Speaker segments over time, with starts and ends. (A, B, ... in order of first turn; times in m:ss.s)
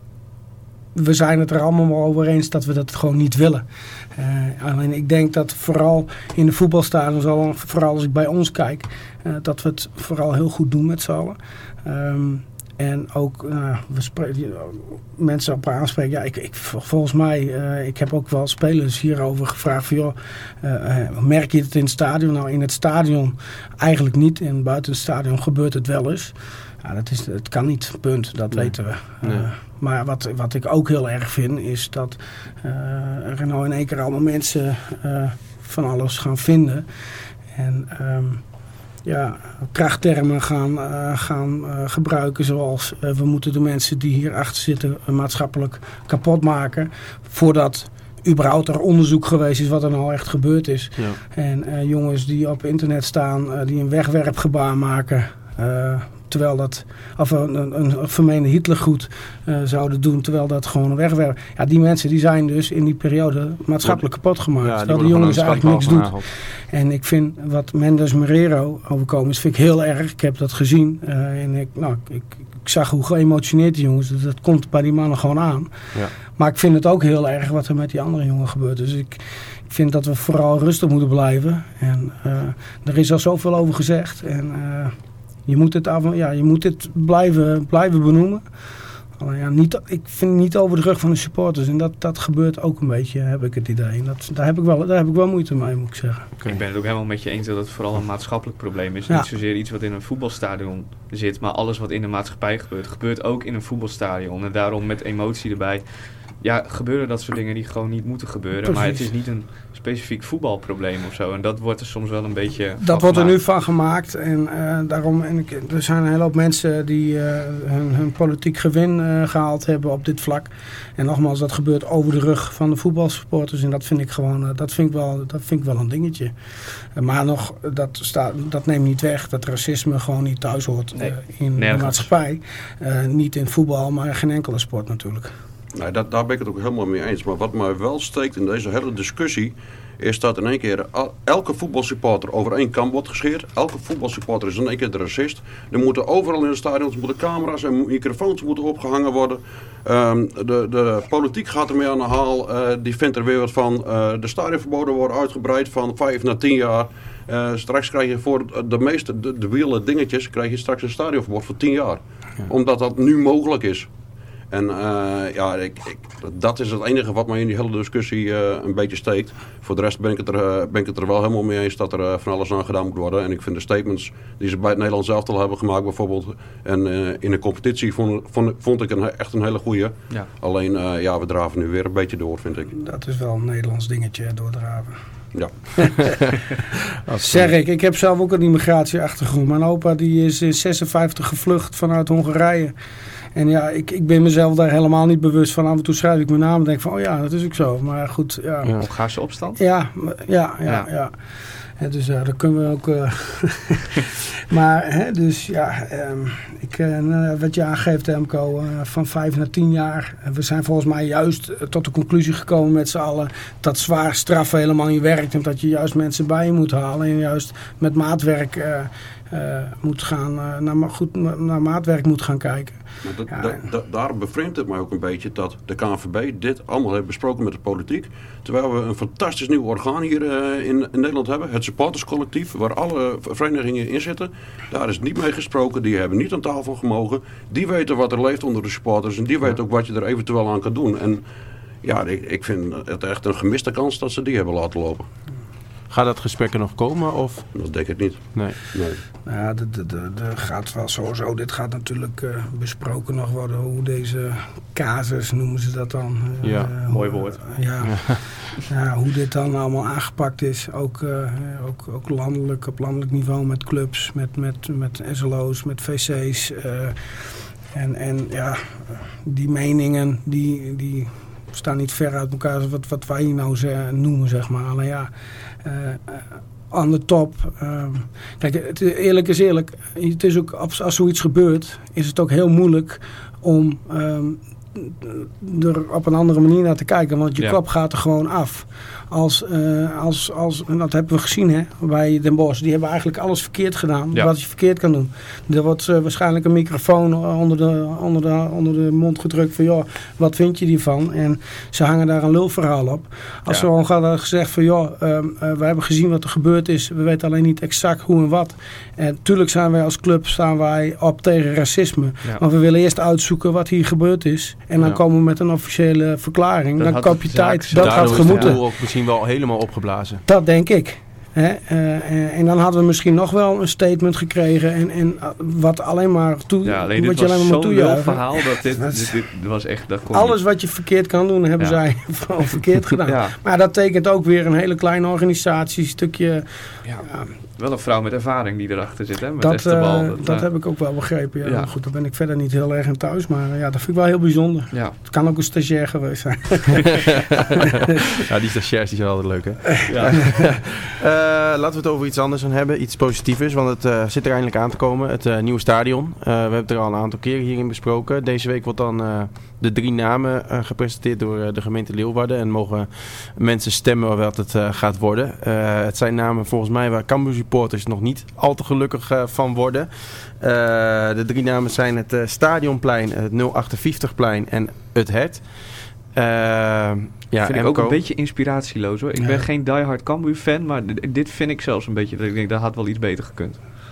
0:00.9-0:36.8 A
0:28.5-0:29.5 B
0:37.5-0:38.4 A
0:39.0-1:15.8 A
1:04.6-1:06.3 B
1:16.3-1:28.4 A
1:29.2-1:36.3 A
1:36.4-1:36.6 B
1:36.5-1:53.3 C
1:48.6-1:49.1 A
1:52.8-2:06.3 A
2:06.9-2:15.3 A
2:10.9-2:12.0 C
2:15.7-2:43.9 D
2:44.5-3:02.7 D
3:02.7-3:04.9 A
3:05.3-3:05.8 D
3:05.8-3:06.0 A
3:07.0-3:07.5 B
3:07.2-3:12.7 A
3:13.3-3:18.8 A
3:18.8-3:19.6 C
3:19.6-3:21.1 A
3:21.8-3:42.8 A
3:43.0-4:01.2 D
4:01.8-4:05.1 D
4:05.9-4:07.5 B
4:07.5-4:09.0 D
4:09.2-4:35.1 A
4:16.4-4:16.7 B
4:16.9-4:17.6 C
4:17.8-4:18.2 B
4:35.6-5:18.6 A
5:16.8-5:18.5 C
5:17.7-5:20.2 B
5:20.2-5:29.1 A
5:26.6-5:30.4 C
5:30.1-5:37.3 A
5:33.0-5:33.3 C
5:37.6-5:40.5 C
5:39.4-5:47.1 A
5:41.4-5:41.7 C
5:48.2-6:15.4 B
5:49.9-5:50.4 C
6:16.1-6:18.0 B
6:17.4-6:23.6 C
6:19.2-6:19.4 A